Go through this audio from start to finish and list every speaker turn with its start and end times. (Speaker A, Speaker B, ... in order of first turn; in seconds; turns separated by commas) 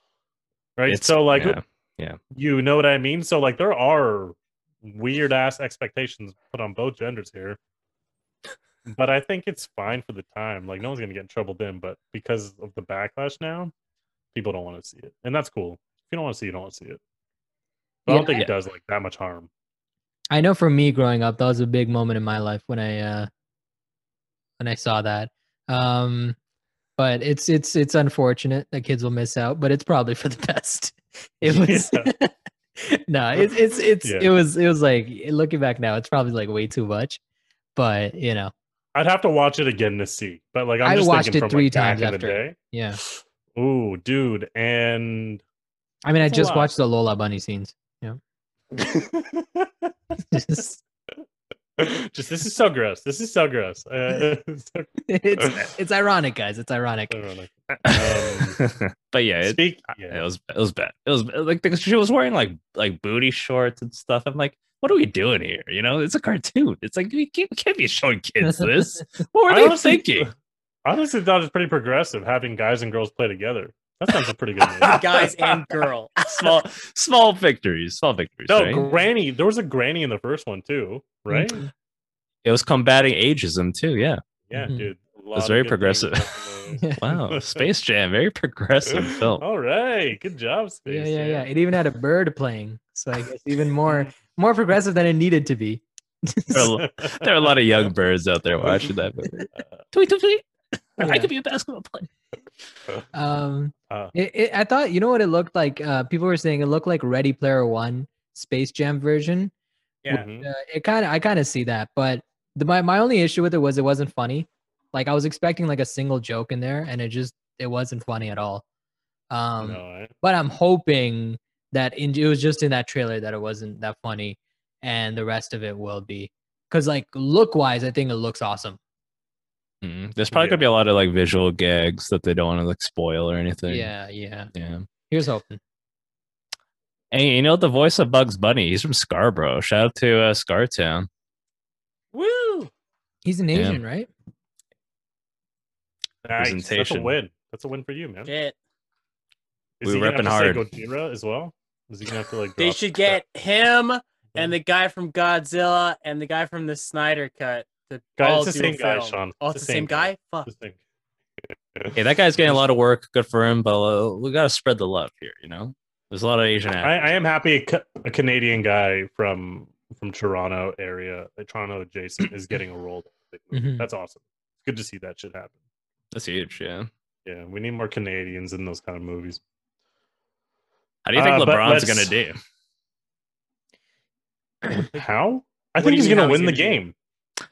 Speaker A: 0.8-1.6, Speaker B: 0.9-2.2, Speaker A: 2.3-7.6, Speaker A: 8.8-13.7, Speaker A: 14.3-17.0, Speaker C: 18.1-18.5, Speaker A: 18.1-19.5, Speaker C: 20.3-23.3, Speaker C: 24.6-26.4, Speaker C: 27.0-37.2, Speaker A: 31.4-32.1, Speaker A: 34.0-34.3, Speaker C: 37.8-38.5, Speaker A: 38.9-45.4, Speaker C: 40.8-43.0, Speaker C: 46.0-48.2, Speaker A: 46.2-46.7, Speaker A: 48.7-49.9, Speaker C: 50.3-50.8, Speaker A: 51.8-55.6, Speaker C: 55.1-57.2, Speaker A: 57.1-58.6, Speaker B: 57.8-70.3, Speaker A: 59.4-60.2, Speaker C: 68.4-69.0, Speaker A: 69.5-70.3, Speaker A: 70.8-75.0, Speaker B: 74.8-78.8, Speaker D: 74.8-76.5, Speaker A: 78.5-81.7, Speaker C: 81.3-81.7, Speaker B: 82.4-84.2, Speaker A: 84.5-87.7, Speaker C: 84.5-84.9, Speaker B: 85.3-86.3, Speaker C: 86.8-87.0, Speaker B: 87.0-89.4, Speaker A: 88.9-91.5, Speaker C: 90.9-96.8, Speaker B: 96.5-100.4, Speaker A: 96.6-97.9, Speaker A: 98.6-98.9, Speaker B: 101.0-102.1, Speaker C: 101.0-101.3, Speaker C: 103.1-109.5, Speaker A: 110.1-110.5, Speaker C: 110.4-118.6, Speaker C: 119.3-128.8, Speaker A: 119.6-120.1, Speaker B: 129.8-133.9, Speaker A: 130.3-130.6, Speaker C: 133.7-134.5, Speaker B: 134.5-134.8, Speaker C: 135.1-135.6, Speaker B: 137.1-141.1, Speaker B: 142.1-142.6, Speaker C: 143.2-144.1, Speaker B: 143.5-143.8, Speaker A: 146.2-148.3, Speaker B: 146.4-147.1, Speaker D: 148.2-148.6, Speaker A: 149.8-153.2, Speaker B: 149.8-150.6, Speaker D: 152.6-160.5, Speaker A: 158.2-160.8, Speaker A: 161.8-162.6, Speaker B: 161.9-167.1, Speaker A: 166.8-175.5, Speaker C: 173.5-173.9, Speaker B: 176.1-176.9, Speaker A: 177.2-179.4, Speaker B: 181.1-182.4, Speaker A: 181.1-182.1, Speaker A: 184.7-186.9, Speaker D: 185.8-186.8